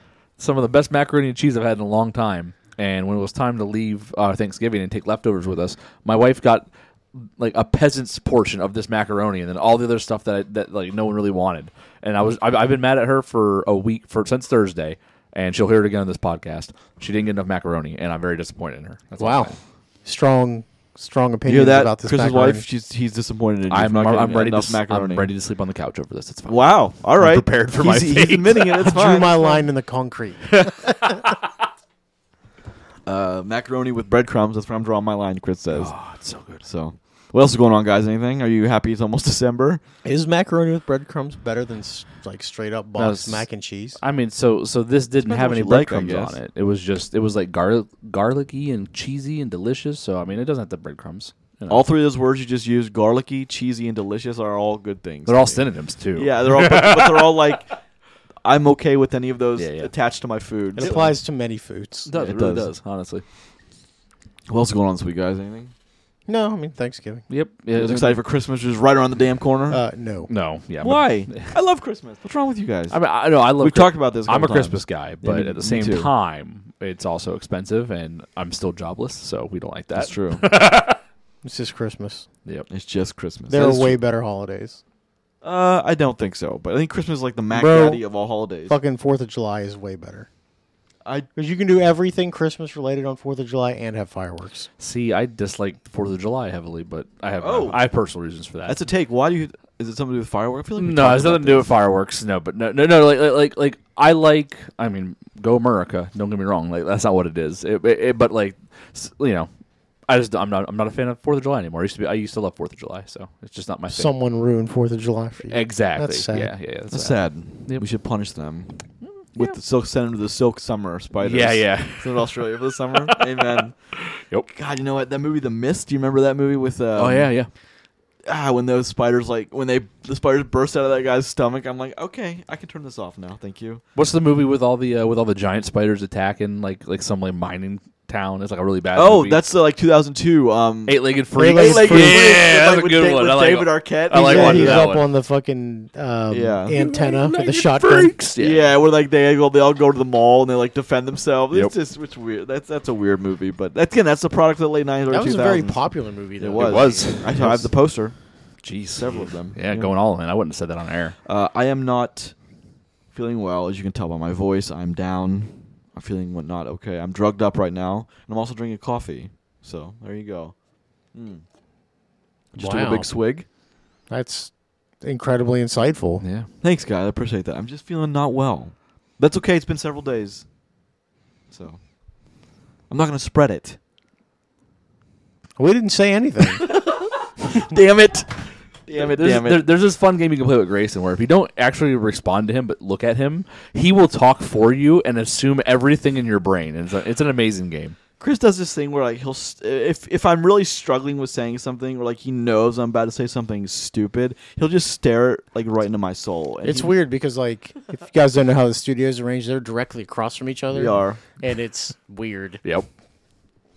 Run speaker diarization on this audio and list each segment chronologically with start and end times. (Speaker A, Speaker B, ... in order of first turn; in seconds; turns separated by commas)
Speaker A: 0.4-19.5, Speaker B: 19.2-22.6, Speaker C: 21.5-25.3, Speaker A: 23.7-26.6, Speaker C: 26.5-29.6, Speaker A: 27.1-28.9, Speaker B: 28.8-31.1, Speaker A: 30.5-31.4, Speaker C: 33.0-35.9, Speaker A: 35.7-36.6, Speaker C: 36.6-39.8, Speaker B: 40.0-44.0, Speaker A: 43.0-51.8, Speaker C: 45.2-46.4, Speaker C: 51.7-57.7, Speaker A: 55.2-57.6, Speaker C: 58.4-61.1, Speaker A: 59.5-59.9, Speaker A: 60.8-61.1, Speaker B: 60.8-62.1, Speaker A: 62.0-63.2, Speaker C: 62.1-62.7, Speaker C: 64.5-65.7, Speaker B: 66.3-67.2, Speaker A: 67.3-68.2, Speaker C: 67.7-69.8, Speaker B: 69.7-70.3, Speaker A: 70.3-71.6, Speaker C: 70.8-73.0, Speaker A: 72.9-81.0, Speaker C: 73.5-76.1, Speaker C: 79.9-80.4, Speaker B: 81.4-82.3, Speaker C: 82.7-84.0, Speaker B: 83.5-84.8, Speaker C: 85.4-88.7, Speaker B: 87.5-88.0, Speaker B: 88.7-90.3, Speaker B: 91.4-94.7, Speaker A: 94.8-98.8, Speaker C: 97.4-97.8, Speaker C: 98.7-101.7, Speaker A: 100.8-109.5, Speaker A: 110.1-114.1, Speaker B: 113.9-116.5, Speaker A: 115.5-117.8, Speaker C: 116.9-118.8, Speaker C: 119.3-123.8, Speaker A: 121.2-123.4, Speaker A: 124.1-124.5, Speaker C: 124.5-127.3, Speaker A: 127.0-127.5, Speaker C: 128.2-133.8, Speaker A: 133.9-139.4, Speaker C: 138.9-144.9, Speaker A: 140.9-145.1, Speaker B: 141.4-142.3, Speaker B: 144.2-148.1, Speaker C: 146.3-146.8, Speaker A: 146.7-148.7, Speaker C: 148.4-155.8, Speaker B: 155.1-157.6, Speaker C: 156.4-158.2, Speaker A: 156.6-157.7, Speaker A: 158.6-161.1, Speaker C: 158.9-159.9, Speaker C: 161.2-162.3, Speaker C: 163.1-170.6, Speaker C: 171.1-171.4, Speaker C: 172.5-173.4, Speaker B: 172.6-173.1, Speaker B: 174.1-176.2, Speaker A: 176.2-176.5, Speaker C: 176.6-180.4, Speaker C: 181.5-181.8, Speaker C: 182.9-183.8, Speaker B: 185.6-186.7, Speaker C: 186.7-189.7, Speaker A: 189.0-197.9, Speaker C: 198.2-206.9, Speaker B: 206.6-212.6, Speaker C: 210.7-211.2